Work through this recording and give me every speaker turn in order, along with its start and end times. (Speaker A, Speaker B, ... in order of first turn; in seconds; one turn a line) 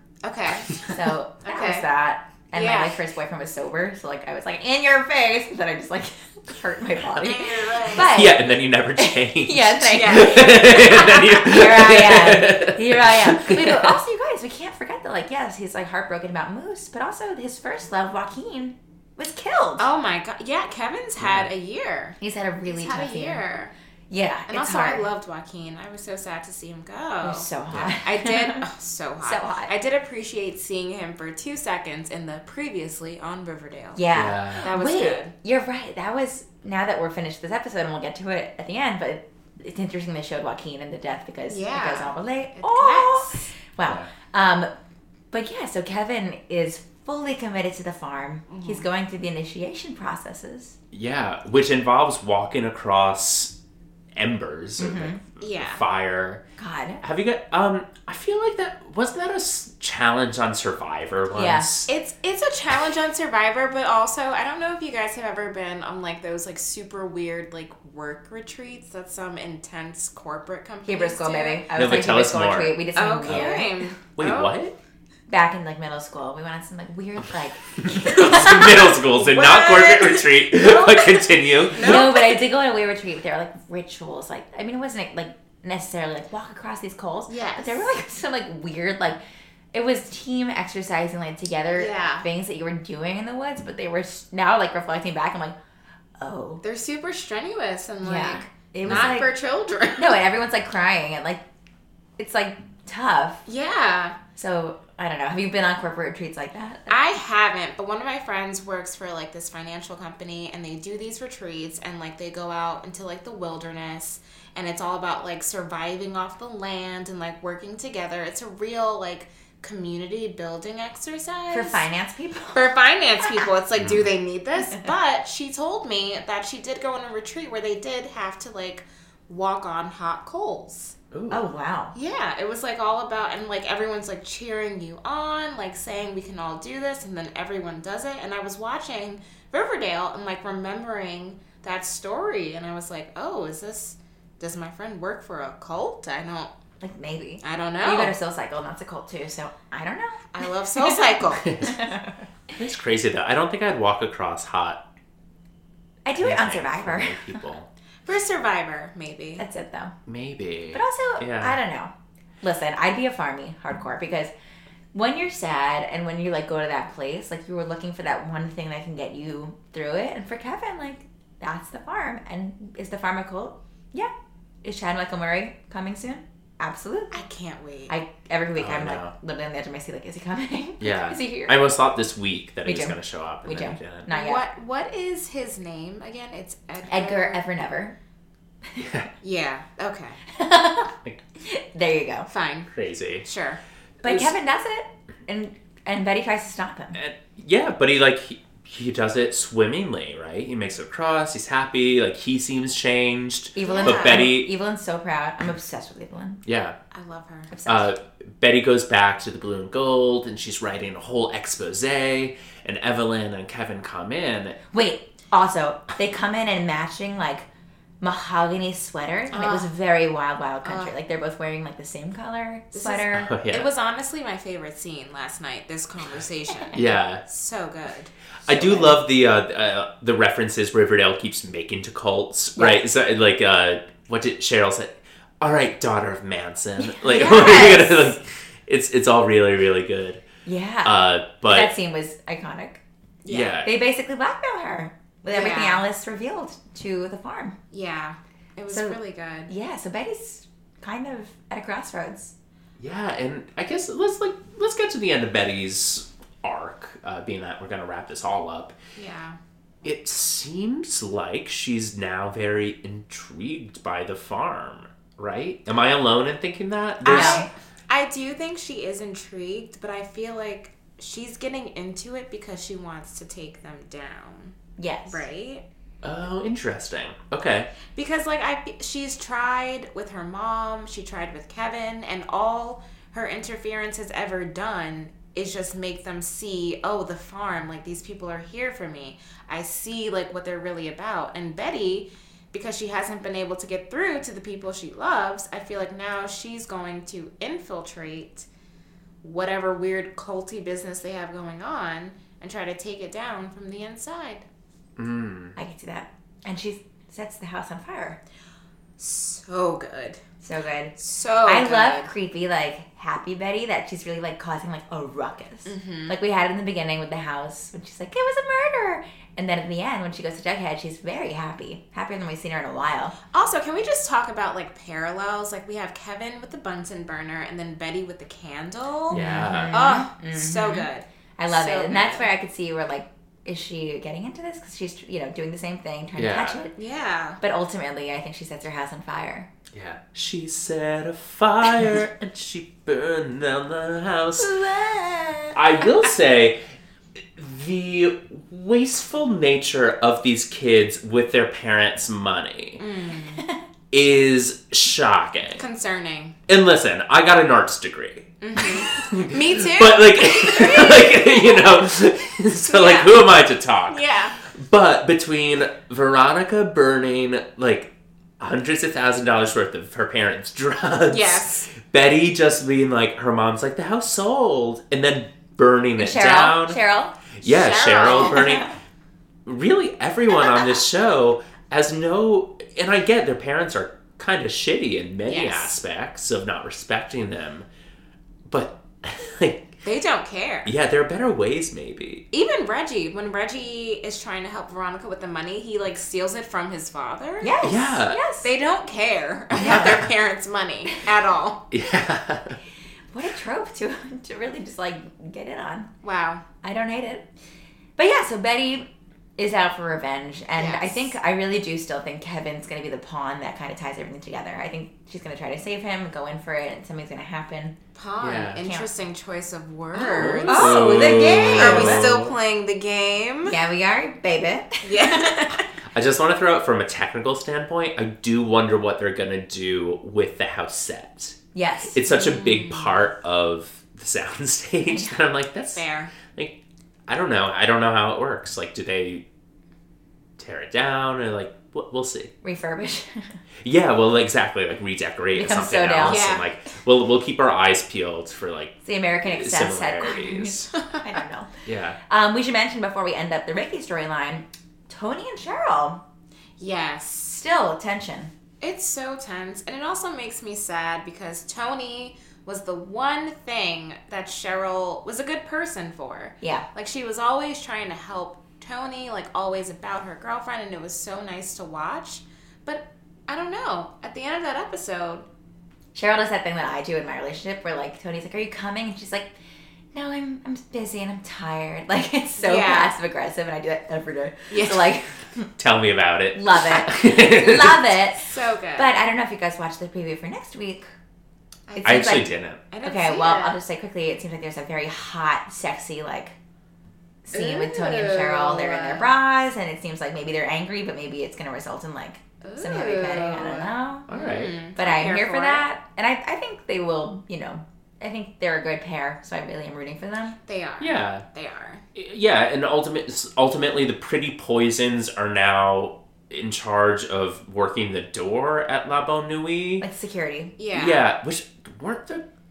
Speaker A: 0.2-0.9
Speaker B: 0.8-19.9
Speaker A: 1.4-1.9
Speaker A: 2.5-3.0
Speaker A: 7.2-8.2
Speaker C: 8.0-14.0
Speaker A: 9.9-11.1
Speaker A: 19.8-23.7
Speaker C: 21.2-21.5
Speaker B: 22.2-23.4
Speaker B: 24.1-25.1
Speaker A: 24.5-27.5
Speaker B: 27.2-28.6
Speaker C: 27.7-28.0
Speaker A: 28.0-34.0
Speaker B: 29.2-29.7
Speaker B: 33.9-44.7
Speaker C: 34.1-34.7
Speaker A: 34.6-35.3
Speaker A: 41.5-43.5
Speaker C: 43.9-44.1
Speaker B: 45.3-50.8
Speaker A: 48.5-48.9
Speaker C: 50.9-53.5
Speaker C: 54.1-56.4
Speaker B: 54.8-55.2
Speaker A: 55.4-55.8
Speaker B: 56.6-57.0
Speaker C: 57.0-61.9
Speaker B: 61.3-61.7
Speaker A: 61.9-71.6
Speaker B: 70.9-73.9
Speaker C: 71.8-73.6
Speaker A: 73.0-74.6
Speaker C: 74.2-74.8
Speaker B: 75.3-79.0
Speaker C: 77.8-82.0
Speaker A: 79.1-82.4
Speaker B: 81.8-89.2
Speaker A: 87.3-87.9
Speaker B: 89.7-95.6
Speaker A: 91.8-92.3
Speaker B: 96.2-96.6
Speaker A: 96.6-100.2
Speaker B: 98.0-99.3
Speaker C: 98.8-99.2
Speaker B: 100.0-101.4
Speaker B: 102.2-103.5
Speaker A: 103.5-104.2
Speaker B: 104.4-107.0
Speaker A: 106.9-121.8
Speaker B: 121.5-123.5
Speaker A: 122.5-130.9
Speaker C: 123.8-124.0
Speaker C: 131.1-131.5
Speaker B: 131.3-131.9
Speaker A: 131.9-146.5
Speaker B: 146.8-152.2
Speaker A: 147.4-148.2
Speaker A: 150.3-151.7
Speaker C: 151.4-151.8
Speaker C: 152.6-154.8
Speaker B: 156.1-157.4
Speaker C: 156.2-157.7
Speaker A: 158.1-159.4
Speaker B: 159.4-159.9
Speaker C: 160.1-161.6
Speaker B: 160.7-164.3
Speaker B: 164.9-174.1
Speaker B: 174.6-177.2
Speaker A: 177.1-177.9
Speaker B: 177.9-181.6
Speaker C: 178.6-179.1
Speaker C: 180.8-184.1
Speaker B: 182.7-184.4
Speaker A: 184.1-187.4
Speaker B: 186.9-187.9
Speaker C: 188.8-189.1
Speaker A: 189.2-190.2
Speaker B: 190.3-192.3
Speaker A: 192.3-192.7
Speaker C: 192.7-193.3
Speaker A: 193.2-193.6
Speaker B: 194.0-197.0
Speaker C: 194.0-194.3
Speaker C: 196.9-204.5
Speaker B: 203.6-206.4
Speaker A: 203.6-204.3
Speaker C: 206.5-206.8
Speaker A: 206.9-207.5
Speaker B: 207.5-207.9
Speaker C: 207.7-214.6
Speaker B: 214.7-217.5
Speaker B: 218.0-223.3
Speaker A: 219.3-219.7
Speaker A: 220.6-220.9
Speaker A: 222.7-228.1
Speaker C: 223.1-223.7
Speaker C: 226.7-227.2
Speaker C: 228.5-240.2
Speaker B: 228.5-228.9
Speaker B: 232.6-232.8
Speaker B: 236.8-237.8
Speaker A: 237.1-238.1
Speaker B: 240.4-242.8
Speaker C: 240.8-241.7
Speaker A: 243.2-243.6
Speaker C: 243.3-243.7
Speaker B: 243.6-247.6
Speaker A: 245.3-245.9
Speaker A: 247.7-249.5
Speaker B: 248.7-252.3
Speaker C: 252.8-258.8
Speaker A: 259.0-259.4
Speaker C: 259.8-267.5
Speaker A: 267.0-274.6
Speaker B: 267.1-267.5
Speaker B: 274.8-275.3
Speaker A: 275.1-275.6
Speaker C: 276.0-277.7
Speaker A: 277.9-298.5
Speaker A: 299.2-304.4
Speaker C: 305.0-305.6
Speaker B: 305.6-308.2
Speaker A: 309.0-310.2
Speaker B: 310.4-323.1
Speaker A: 311.0-312.1
Speaker A: 315.7-316.2
Speaker A: 323.3-332.3
Speaker C: 329.1-329.8
Speaker B: 329.1-336.8
Speaker C: 336.2-336.6
Speaker A: 336.8-337.4
Speaker B: 337.4-339.5
Speaker C: 339.7-344.5
Speaker B: 344.4-345.6
Speaker C: 345.5-346.6
Speaker C: 347.4-352.8
Speaker A: 352.8-353.4
Speaker C: 353.9-355.6
Speaker A: 355.6-356.4
Speaker C: 356.5-376.8
Speaker A: 358.4-361.8
Speaker A: 362.7-363.2
Speaker A: 363.9-364.4
Speaker A: 371.1-371.7
Speaker B: 376.0-377.2
Speaker C: 377.4-378.7
Speaker A: 377.4-378.6
Speaker C: 379.5-387.7
Speaker A: 385.2-385.8
Speaker C: 388.5-389.7
Speaker A: 389.8-390.7
Speaker C: 390.6-392.2
Speaker A: 392.3-397.6
Speaker B: 397.4-398.5
Speaker C: 397.6-398.2
Speaker A: 398.4-401.6
Speaker B: 399.6-399.9
Speaker C: 399.6-399.9
Speaker C: 401.7-402.6
Speaker B: 403.1-405.9
Speaker A: 406.0-406.4
Speaker B: 406.6-407.3
Speaker B: 408.0-417.8
Speaker A: 410.6-411.1
Speaker A: 417.9-423.6
Speaker C: 418.2-418.6
Speaker B: 418.6-418.9
Speaker B: 419.9-422.2
Speaker C: 420.1-422.3
Speaker B: 423.4-425.6
Speaker A: 424.8-425.7
Speaker C: 425.9-431.4
Speaker B: 431.5-432.0
Speaker C: 431.9-436.6
Speaker A: 432.1-433.0
Speaker B: 434.9-435.2
Speaker A: 435.8-436.1
Speaker C: 437.1-439.2
Speaker C: 440.4-442.3
Speaker B: 442.4-443.4
Speaker C: 443.6-450.7
Speaker B: 445.4-446.4
Speaker A: 446.0-446.5
Speaker B: 448.8-451.5
Speaker A: 450.7-451.2
Speaker C: 451.6-452.0
Speaker B: 452.1-456.0
Speaker A: 456.6-457.4
Speaker B: 457.3-458.3
Speaker A: 458.6-475.3
Speaker B: 475.9-479.3
Speaker B: 479.9-485.5
Speaker A: 482.4-482.9
Speaker A: 484.5-484.9
Speaker C: 485.6-487.9
Speaker B: 486.3-490.9
Speaker A: 488.2-488.9
Speaker A: 491.7-493.6
Speaker B: 491.8-492.3
Speaker C: 491.8-492.6
Speaker B: 492.8-496.4
Speaker B: 497.3-504.1
Speaker A: 497.3-499.1
Speaker A: 502.4-505.6
Speaker C: 504.1-504.6
Speaker B: 504.8-510.4
Speaker A: 510.5-511.8
Speaker C: 510.8-511.2
Speaker C: 511.9-519.9
Speaker B: 519.8-520.6
Speaker A: 520.6-521.0
Speaker C: 520.7-522.2